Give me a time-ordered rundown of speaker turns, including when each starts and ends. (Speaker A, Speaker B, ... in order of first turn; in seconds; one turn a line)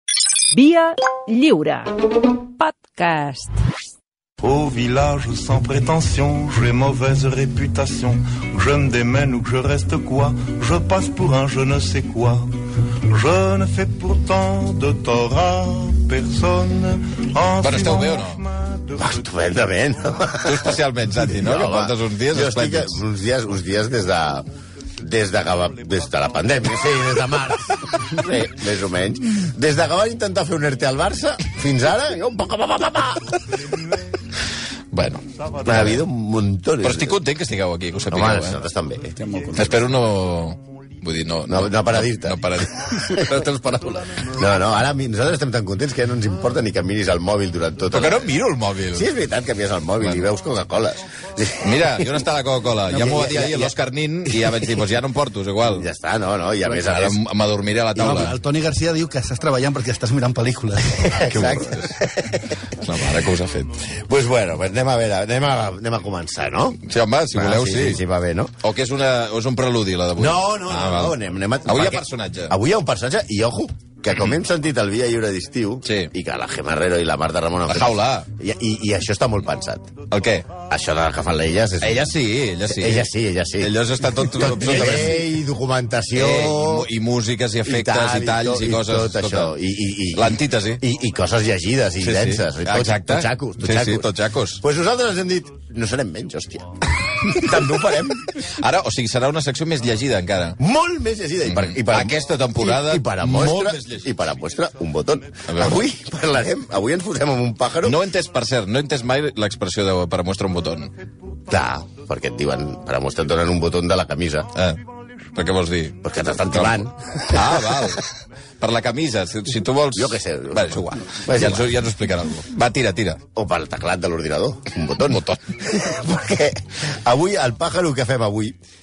Speaker A: 0.5-3.5
Speaker B: 4.4-19.1
Speaker C: 17.6-18.5
Speaker D: 19.0-20.8
Speaker C: 20.4-23.0
Speaker D: 21.4-24.5
Speaker D: 25.0-33.4
Speaker C: 34.9-36.0
Speaker B: 35.3-35.8
Speaker D: 35.6-37.2
Speaker C: 36.8-38.6
Speaker D: 38.1-39.2
Speaker E: 39.1-39.7
Speaker B: 39.2-40.6
Speaker C: 39.5-44.0
Speaker D: 41.5-42.4
Speaker E: 43.1-44.0
Speaker D: 44.3-48.3
Speaker C: 47.9-49.1
Speaker D: 48.9-52.2
Speaker C: 50.0-50.2
Speaker C: 51.6-55.9
Speaker D: 52.9-53.7
Speaker D: 54.3-54.8
Speaker D: 55.6-57.2
Speaker C: 56.7-58.3
Speaker E: 57.9-61.2
Speaker D: 61.0-62.5
Speaker C: 61.2-62.0
Speaker C: 62.7-63.8
Speaker D: 64.0-66.8
Speaker C: 66.8-68.0
Speaker D: 67.3-68.5
Speaker C: 68.6-72.5
Speaker D: 70.2-79.9
Speaker C: 75.8-76.1
Speaker C: 77.7-78.3
Speaker C: 80.1-80.5
Speaker D: 80.7-82.1
Speaker C: 81.8-85.2
Speaker D: 82.7-83.7
Speaker D: 84.3-86.9
Speaker C: 86.1-89.5
Speaker D: 87.6-94.1
Speaker C: 90.1-90.8
Speaker C: 92.0-94.6
Speaker D: 94.6-98.2
Speaker C: 98.6-100.6
Speaker D: 100.6-108.0
Speaker C: 101.4-104.1
Speaker C: 105.5-105.8
Speaker C: 107.8-110.9
Speaker D: 111.5-114.5
Speaker C: 114.5-114.8
Speaker C: 115.3-118.1
Speaker D: 116.0-117.9
Speaker C: 118.6-123.2
Speaker D: 119.9-121.7
Speaker D: 123.3-128.5